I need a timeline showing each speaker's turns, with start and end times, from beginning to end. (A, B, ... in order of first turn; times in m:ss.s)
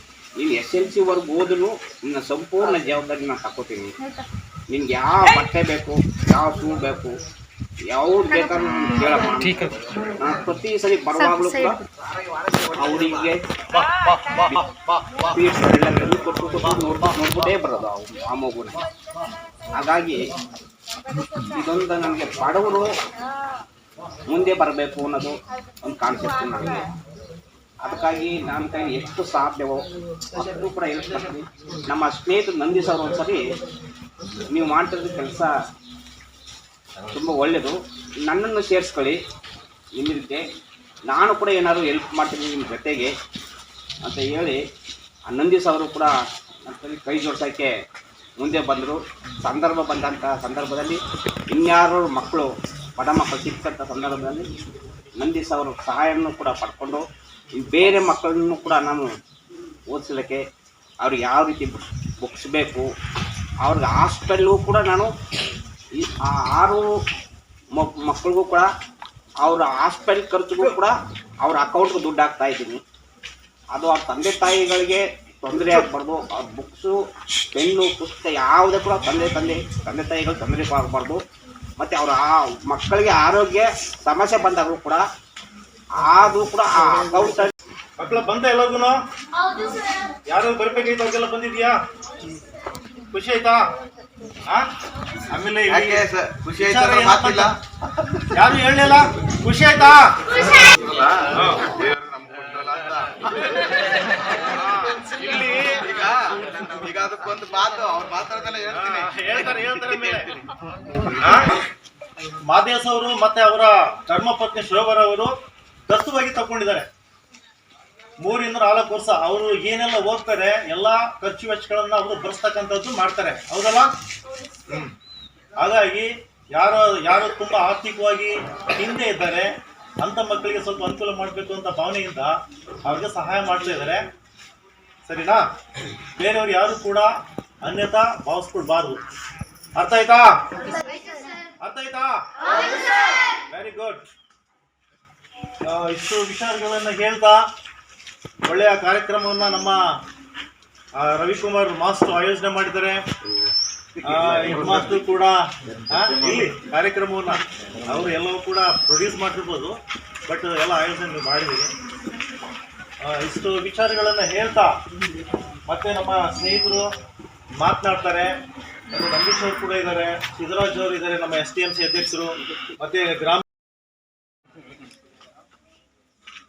0:00.4-0:03.9 A
0:04.7-0:07.2 A
0:07.9-0:11.8 A
0:12.7-0:13.4 A
0:15.3-0:18.8 A
0:19.7-0:20.2 A
0:21.4-0:22.9 A
0:24.3-0:26.8 A
0:27.8-0:29.8 A
0:30.3-0:33.4 A
0:34.5-0:35.5 A
0:37.1-0:39.2 A
0:40.0-0:40.4 A
0:41.1-0:43.1 A
0:44.0-0:44.6 A
0:45.3-0:46.1 A
0:46.7-0:47.7 A
0:48.4-0:54.5 A
0:55.2-0:57.0 A
0:57.6-0:59.0 A
0:59.9-1:00.4 A
1:01.0-1:02.9 A
1:03.6-1:05.1 A
1:06.0-1:06.8 A
1:07.7-1:08.7 A
1:09.4-1:12.8 A
1:13.7-1:17.0 A
1:17.5-1:21.2 A
1:21.8-1:25.0 A
1:26.0-1:27.5 A
1:28.0-1:29.0 B
1:30.3-1:31.8 B
1:33.1-1:33.6 B
1:35.3-1:37.5 B
1:35.7-1:37.5 C
1:38.3-1:40.1 B
1:40.8-1:43.3 C
1:41.3-1:41.7 B
1:44.6-1:45.7 B
1:45.8-1:49.1 C
1:48.7-1:50.3 B
1:49.9-1:50.3 C
1:51.2-1:51.5 B
1:52.5-1:55.3 B
1:55.9-1:56.9 B
1:58.2-2:03.9 B
2:05.6-2:14.0 B
2:15.1-2:15.4 B
2:16.2-2:17.1 B
2:17.6-2:19.0 B
2:19.8-2:20.3 B
2:21.6-2:22.2 B
2:23.5-2:24.0 B
2:25.7-2:27.4 B
2:28.5-2:29.8 B
2:31.0-2:33.0 B
2:34.0-2:35.4 B
2:35.9-2:39.8 B
2:40.3-2:41.7 B
2:43.0-2:44.7 B
2:45.7-2:46.9 B
2:47.6-2:48.3 B
2:48.9-2:53.4 B